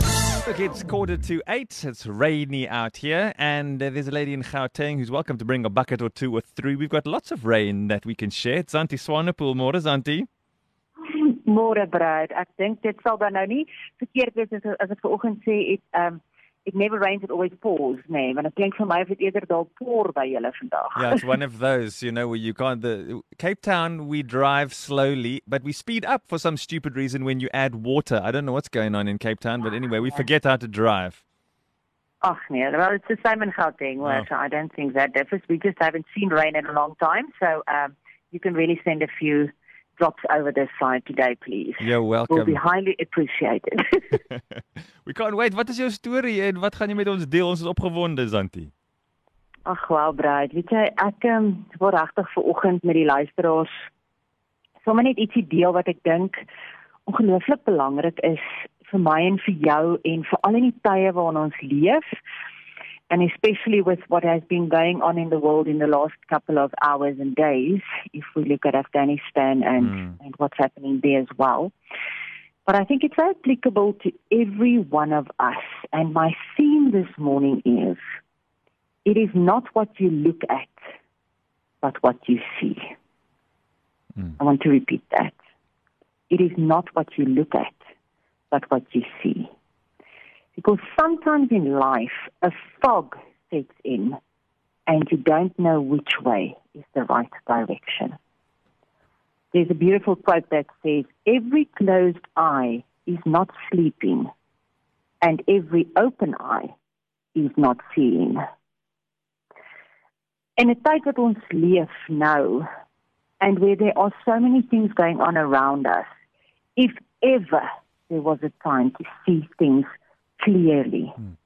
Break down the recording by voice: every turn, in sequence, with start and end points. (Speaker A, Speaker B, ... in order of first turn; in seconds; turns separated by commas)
Speaker A: 0.5-10.3, Speaker B: 11.1-21.1, Speaker A: 20.9-31.2, Speaker B: 32.2-44.1, Speaker A: 41.8-42.6, Speaker A: 45.0-48.7, Speaker B: 49.7-53.7, Speaker B: 54.8-56.5, Speaker B: 57.1-62.0, Speaker B: 63.1-71.7, Speaker B: 72.7-78.0, Speaker B: 79.0-80.8, Speaker B: 81.8-82.9, Speaker B: 84.4-85.4, Speaker B: 86.3-87.8, Speaker B: 88.5-89.5, Speaker B: 90.6-94.2, Speaker B: 94.9-98.2, Speaker B: 99.5-104.3, Speaker B: 105.2-106.7, Speaker B: 107.3-108.4, Speaker B: 110.6-112.7, Speaker B: 113.4-116.1, Speaker B: 116.8-119.9, Speaker B: 120.4-121.2